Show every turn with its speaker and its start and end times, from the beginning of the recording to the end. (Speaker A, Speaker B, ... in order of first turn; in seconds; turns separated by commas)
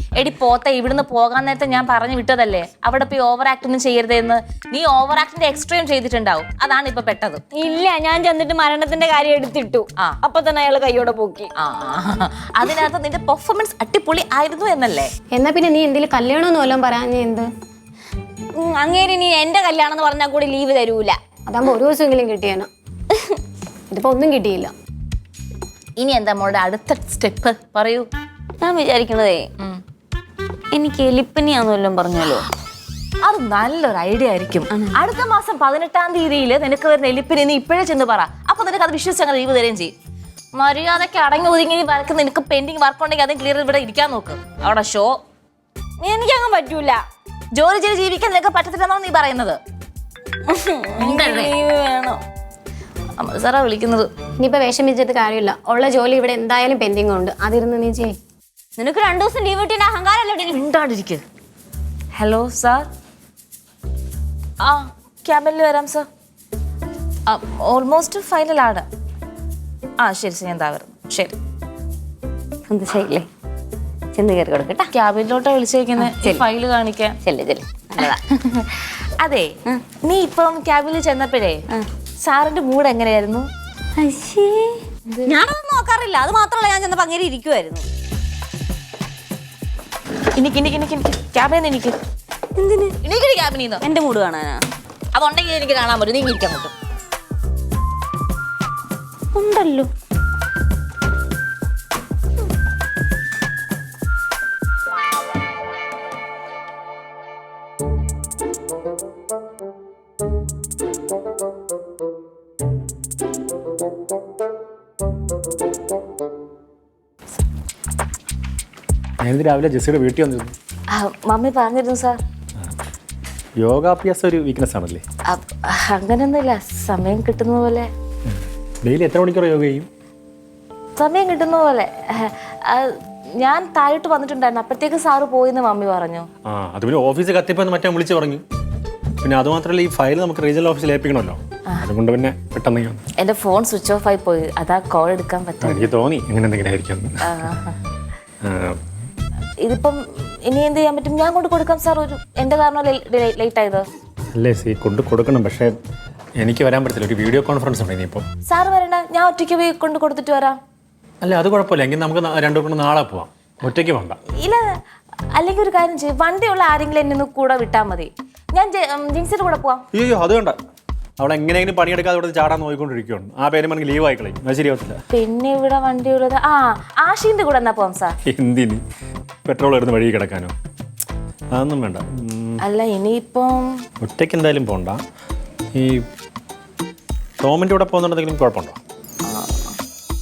Speaker A: 0.2-7.4, Speaker B: 7.5-11.5, Speaker A: 11.6-15.1, Speaker C: 15.3-17.5, Speaker B: 18.6-21.2, Speaker C: 21.5-22.7, Speaker C: 23.9-24.7, Speaker A: 26.0-28.1, Speaker B: 28.6-29.4, Speaker B: 30.7-32.4, Speaker A: 33.2-39.9, Speaker A: 40.5-45.1, Speaker B: 46.0-47.0, Speaker A: 47.5-49.6, Speaker B: 50.5-52.2, Speaker A: 51.0-51.5, Speaker A: 53.2-54.1, Speaker C: 54.4-58.2, Speaker B: 58.8-60.6, Speaker A: 60.5-61.2, Speaker A: 62.1-62.9, Speaker A: 64.6-66.0, Speaker A: 67.3-68.8, Speaker A: 70.0-71.3, Speaker B: 72.7-73.3, Speaker B: 74.1-74.9, Speaker A: 74.9-77.2, Speaker B: 76.0-76.4, Speaker B: 77.2-78.2, Speaker A: 78.0-79.5, Speaker A: 80.0-81.6, Speaker A: 82.2-83.5, Speaker B: 84.0-87.9, Speaker A: 85.1-85.4, Speaker A: 90.4-91.9, Speaker B: 92.6-92.9, Speaker A: 93.0-93.8, Speaker B: 93.8-94.6, Speaker A: 95.1-96.7, Speaker B: 99.3-99.9, Speaker D: 119.2-120.5, Speaker A: 120.9-122.2, Speaker D: 123.6-125.0, Speaker A: 125.3-127.9, Speaker D: 128.3-129.9, Speaker A: 131.0-136.3, Speaker D: 136.4-138.4, Speaker D: 139.2-143.0, Speaker A: 143.2-145.8, Speaker D: 145.6-147.0, Speaker A: 147.3-147.8, Speaker D: 148.4-148.8, Speaker A: 149.6-153.8, Speaker D: 154.3-155.7, Speaker D: 156.4-158.2, Speaker A: 158.5-160.6, Speaker D: 161.2-164.2, Speaker A: 165.3-169.8, Speaker D: 169.9-170.6, Speaker D: 171.2-175.0, Speaker A: 175.1-178.2, Speaker D: 178.3-178.8, Speaker D: 179.4-180.5, Speaker D: 181.6-182.6, Speaker A: 182.6-183.7, Speaker D: 184.0-185.0, Speaker D: 185.7-186.0, Speaker D: 187.4-188.8, Speaker A: 189.2-189.7